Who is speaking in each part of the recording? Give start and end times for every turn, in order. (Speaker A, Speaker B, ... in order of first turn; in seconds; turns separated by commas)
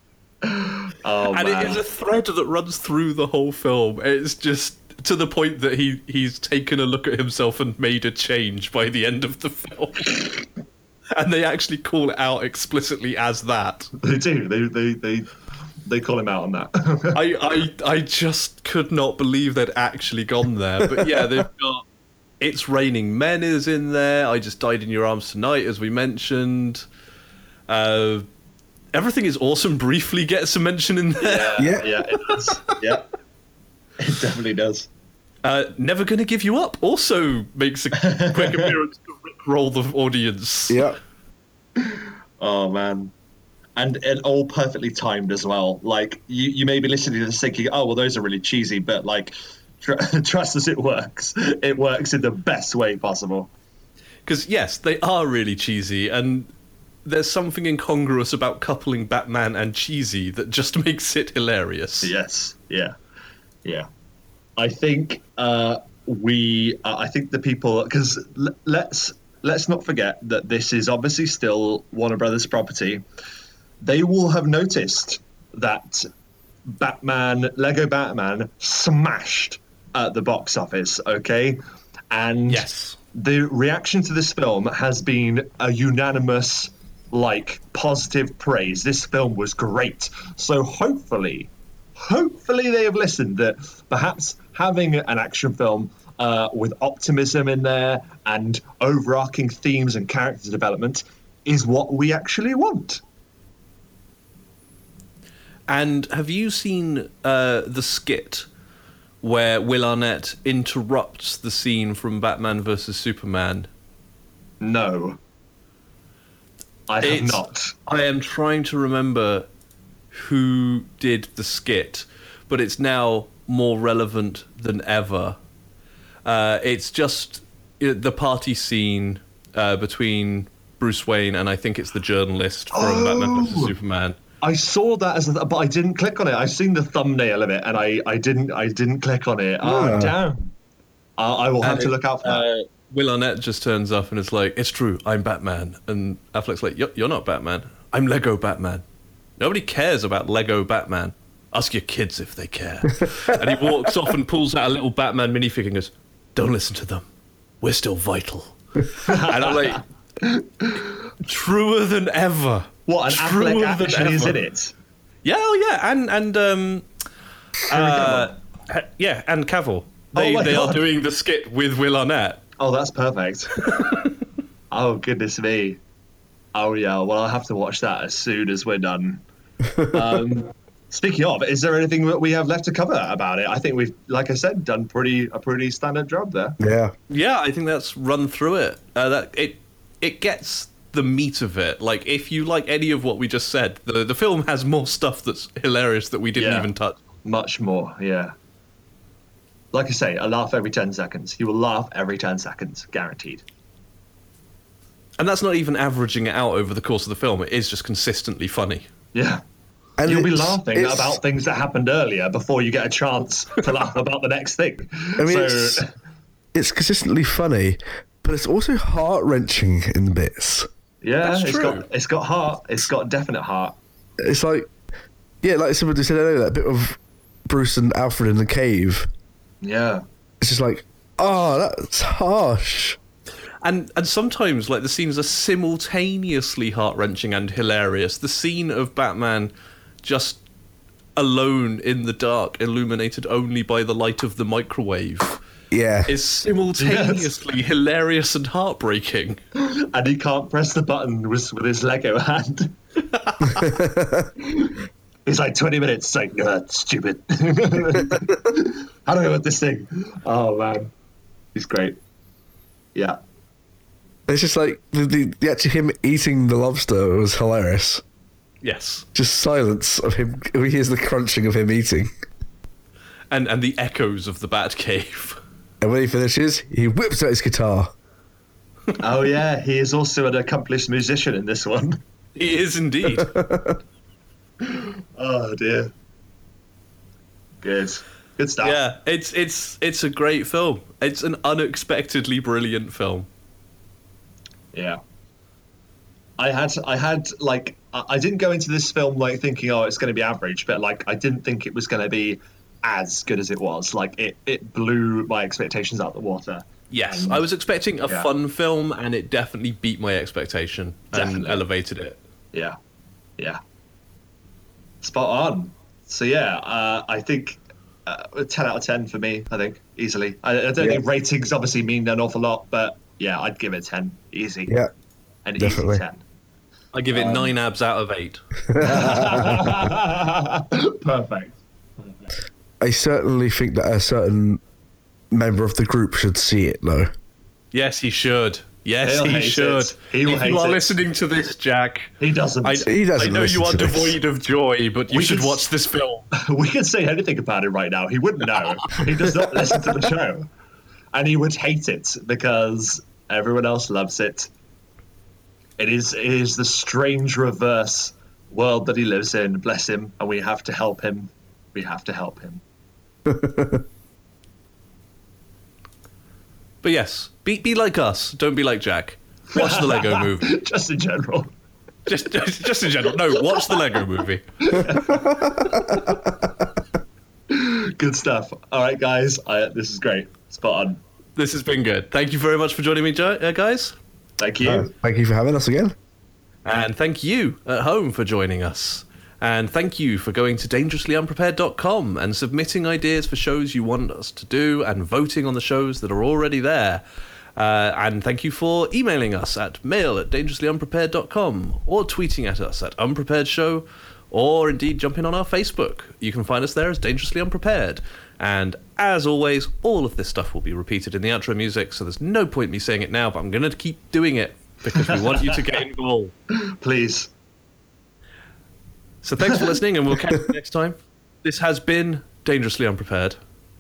Speaker A: 0.4-1.8, Speaker B: 1.3-10.3, Speaker B: 11.1-13.9, Speaker A: 14.0-15.3, Speaker A: 15.8-17.2, Speaker B: 17.1-21.8, Speaker C: 20.8-21.4, Speaker B: 22.4-26.9, Speaker B: 27.7-28.3, Speaker B: 28.9-31.8, Speaker A: 31.2-33.0, Speaker C: 31.6-31.9, Speaker A: 34.0-34.9, Speaker B: 35.4-40.9, Speaker A: 38.0-38.7, Speaker C: 40.7-41.0, Speaker A: 41.8-43.1, Speaker A: 43.8-53.5, Speaker B: 54.2-56.5, Speaker B: 57.0-62.1, Speaker A: 62.0-63.0, Speaker A: 64.6-73.0, Speaker A: 73.8-76.1, Speaker A: 76.7-81.6, Speaker A: 82.1-103.0, Speaker B: 82.5-83.0, Speaker B: 105.7-108.5, Speaker B: 109.2-113.7, Speaker A: 114.6-115.2, Speaker A: 116.9-117.7, Speaker B: 117.0-119.5, Speaker B: 120.1-125.4, Speaker B: 126.2-134.2, Speaker A: 132.7-133.7, Speaker A: 134.4-140.5, Speaker C: 139.6-140.1, Speaker A: 141.2-142.4, Speaker B: 141.6-148.8, Speaker B: 149.4-157.1, Speaker B: 157.6-159.8, Speaker A: 159.0-161.0, Speaker B: 161.2-164.4, Speaker A: 162.9-164.7, Speaker B: 165.2-166.8, Speaker B: 167.7-172.4, Speaker A: 167.7-168.3, Speaker A: 170.1-170.8, Speaker A: 172.6-173.5, Speaker B: 173.7-174.1, Speaker A: 174.7-175.8, Speaker A: 176.5-179.2, Speaker C: 179.6-180.0, Speaker A: 179.9-186.6, Speaker C: 186.6-186.9, Speaker B: 187.1-197.0, Speaker A: 196.3-196.7, Speaker A: 197.2-198.3, Speaker A: 199.7-203.4, Speaker B: 205.2-208.9, Speaker A: 209.1-209.4, Speaker C: 210.0-211.2, Speaker A: 210.0-215.9, Speaker C: 215.2-215.8, Speaker C: 216.5-220.7, Speaker A: 221.0-223.8, Speaker B: 221.2-221.8, Speaker C: 224.2-224.7, Speaker C: 225.4-229.1, Speaker A: 229.6-230.0, Speaker C: 230.4-233.0, Speaker B: 233.6-239.5, Speaker B: 240.0-240.4, Speaker B: 241.2-245.4, Speaker C: 245.7-246.1, Speaker B: 246.1-249.4, Speaker A: 246.8-247.3, Speaker A: 249.6-252.7, Speaker B: 253.2-253.6, Speaker C: 253.6-254.3, Speaker A: 255.2-260.9, Speaker A: 261.5-262.0, Speaker C: 264.3-268.0, Speaker B: 268.6-269.1, Speaker C: 269.1-272.1, Speaker B: 273.3-275.4, Speaker C: 275.8-277.9, Speaker A: 279.0-282.0, Speaker B: 282.3-283.3, Speaker C: 283.1-283.8, Speaker A: 284.6-285.9, Speaker A: 287.6-288.8, Speaker B: 288.6-293.3, Speaker A: 294.7-295.0, Speaker A: 296.4-307.4, Speaker B: 306.9-312.2, Speaker A: 311.1-311.6, Speaker A: 315.0-324.7, Speaker A: 325.4-326.2, Speaker C: 325.6-326.0, Speaker B: 326.9-328.4, Speaker A: 327.1-327.5, Speaker C: 328.7-329.8, Speaker A: 328.8-332.3, Speaker C: 332.8-334.6, Speaker C: 335.3-337.1, Speaker B: 337.7-342.1, Speaker A: 339.0-340.9, Speaker A: 342.2-342.9, Speaker B: 342.6-346.3, Speaker C: 342.9-344.1, Speaker A: 345.1-345.6, Speaker A: 346.3-350.5, Speaker A: 351.1-354.5, Speaker A: 355.8-362.6, Speaker C: 363.2-363.8, Speaker B: 366.8-370.5, Speaker A: 369.5-371.5, Speaker B: 372.1-374.9, Speaker A: 374.6-376.0, Speaker C: 375.4-375.8, Speaker A: 377.5-381.0, Speaker B: 381.4-384.0, Speaker A: 384.4-384.9, Speaker C: 384.6-385.9, Speaker B: 386.6-397.0, Speaker B: 397.6-416.3, Speaker A: 416.6-417.3, Speaker B: 419.2-423.4